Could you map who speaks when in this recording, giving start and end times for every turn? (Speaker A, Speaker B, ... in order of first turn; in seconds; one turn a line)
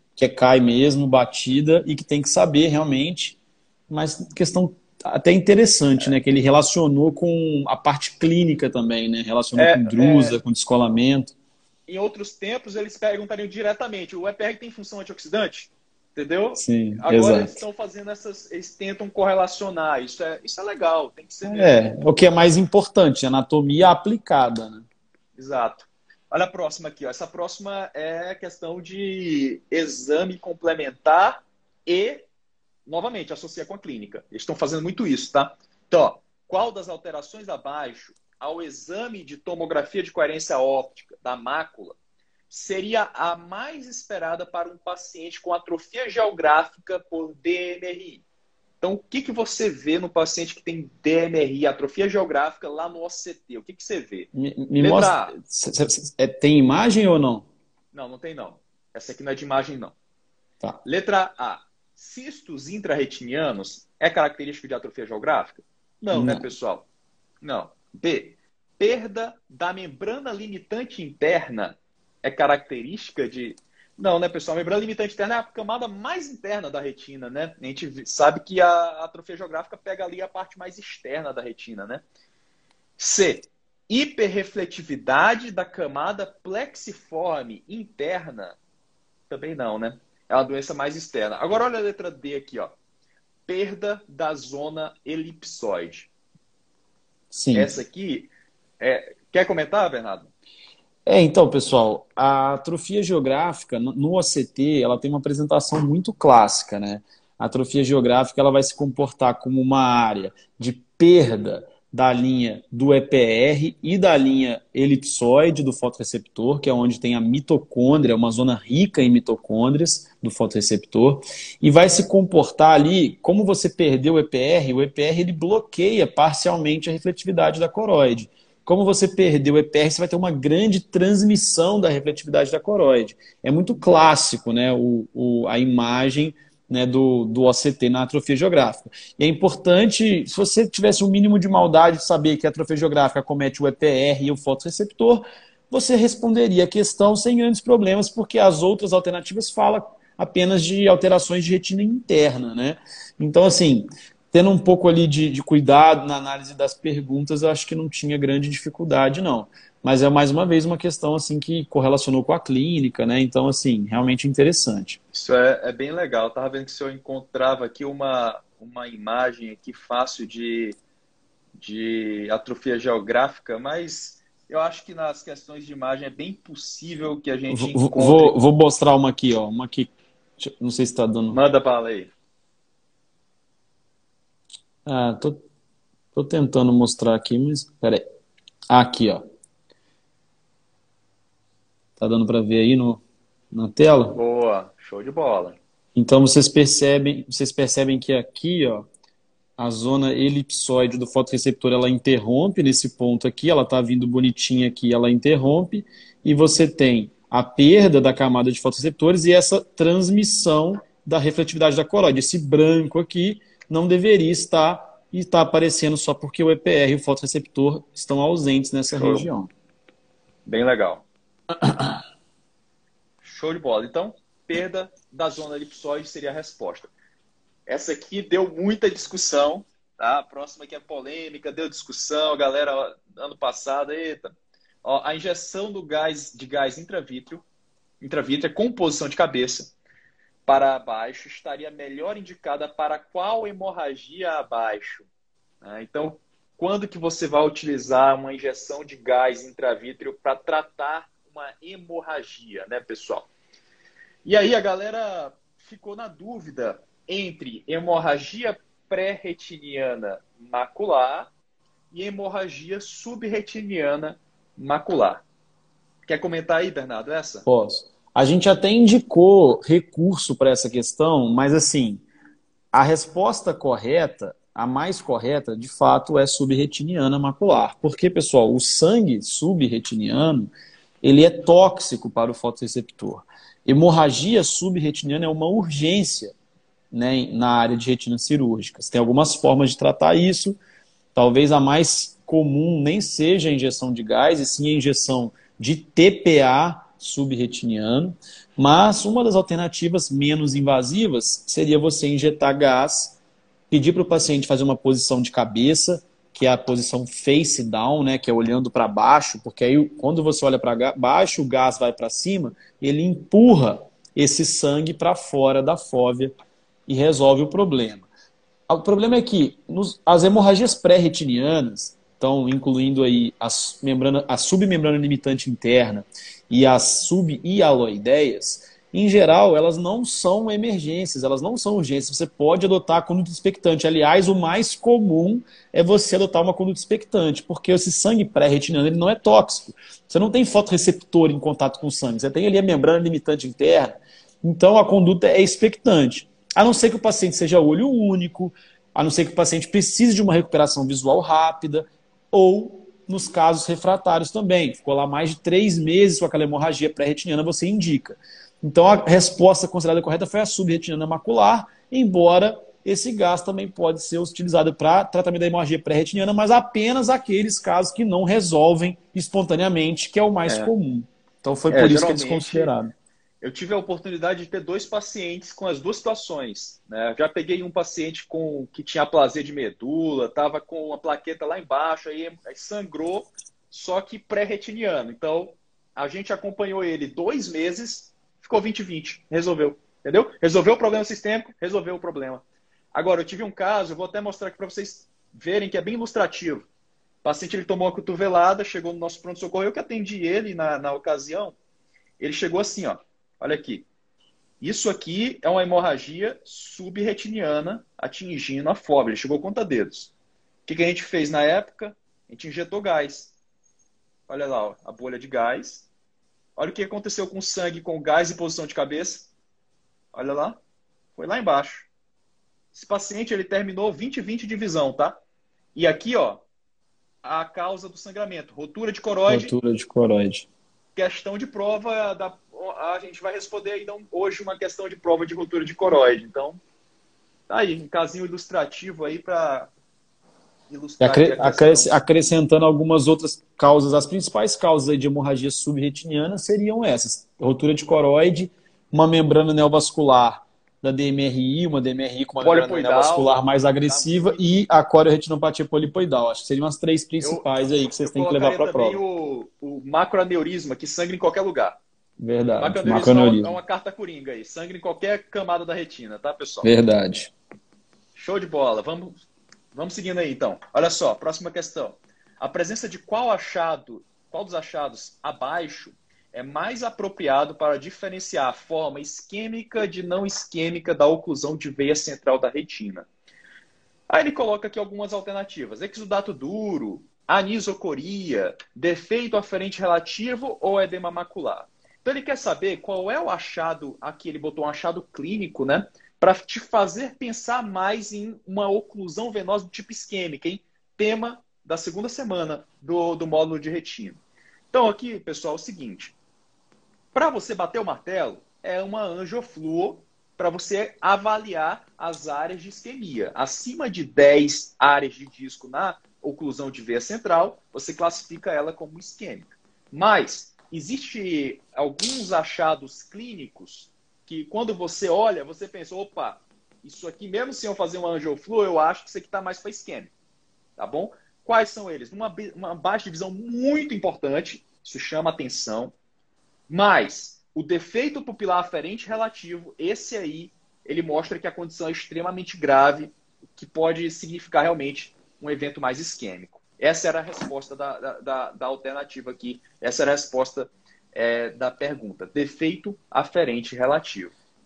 Speaker A: 0.2-3.4
Speaker A: 3.9-11.3
Speaker B: 9.5-10.4
Speaker B: 11.9-22.1
Speaker A: 16.6-17.6
Speaker A: 21.4-24.8
Speaker B: 25.4-32.2
Speaker B: 32.9-42.0
Speaker B: 42.5-48.2
Speaker B: 48.8-55.3
Speaker A: 54.3-57.5
Speaker B: 57.9-59.9
Speaker B: 60.8-66.8
Speaker A: 66.1-66.4
Speaker B: 67.4-82.0
Speaker B: 83.0-88.6
Speaker B: 89.3-92.7
Speaker B: 93.5-96.1
Speaker A: 97.3-97.7
Speaker B: 97.5-100.3
Speaker A: 101.0-165.0
Speaker B: 165.1-170.8
Speaker B: 171.6-178.3
Speaker A: 177.5-181.4
Speaker B: 181.3-182.1
Speaker A: 184.8-185.4
Speaker A: 186.1-188.0
Speaker A: 188.7-189.2
Speaker A: 192.0-194.2
Speaker B: 194.1-195.6
Speaker A: 195.9-198.8
Speaker A: 199.6-219.5
Speaker B: 218.9-219.3
Speaker B: 220.4-221.0
Speaker B: 223.2-226.9
Speaker B: 227.7-234.3
Speaker B: 234.8-237.4
Speaker B: 238.0-239.7
Speaker B: 240.5-245.1
Speaker B: 245.6-253.3
Speaker B: 254.2-261.3
Speaker B: 261.9-265.2
Speaker B: 266.1-267.4
Speaker A: 267.4-272.0
Speaker A: 272.7-286.3
Speaker A: 286.9-290.6
Speaker A: 291.1-303.2
Speaker A: 303.7-316.3
Speaker A: 316.9-318.1
Speaker A: 318.7-372.9
Speaker B: 371.7-372.7
Speaker B: 373.4-396.7
Speaker B: 397.2-401.6
Speaker B: 402.2-403.9
Speaker B: 404.6-410.1
Speaker B: 410.6-413.3
Speaker B: 414.3-415.9
Speaker B: 416.6-419.3
Speaker B: 420.1-420.6
Speaker B: 421.1-421.9
Speaker B: 422.7-425.2
Speaker B: 425.7-426.4
Speaker B: 427.2-429.5
Speaker A: 429.3-430.5
Speaker B: 430.9-436.6
Speaker B: 437.5-439.7
Speaker B: 440.7-442.0
Speaker A: 441.0-459.0
Speaker B: 452.4-454.4
Speaker B: 458.0-461.8
Speaker A: 462.2-463.6
Speaker B: 462.6-466.7
Speaker A: 466.6-467.3
Speaker B: 468.1-469.2
Speaker B: 469.7-483.1
Speaker B: 484.1-504.2
Speaker B: 504.7-506.1
Speaker B: 507.1-530.1
Speaker B: 530.8-535.9
Speaker B: 536.7-554.3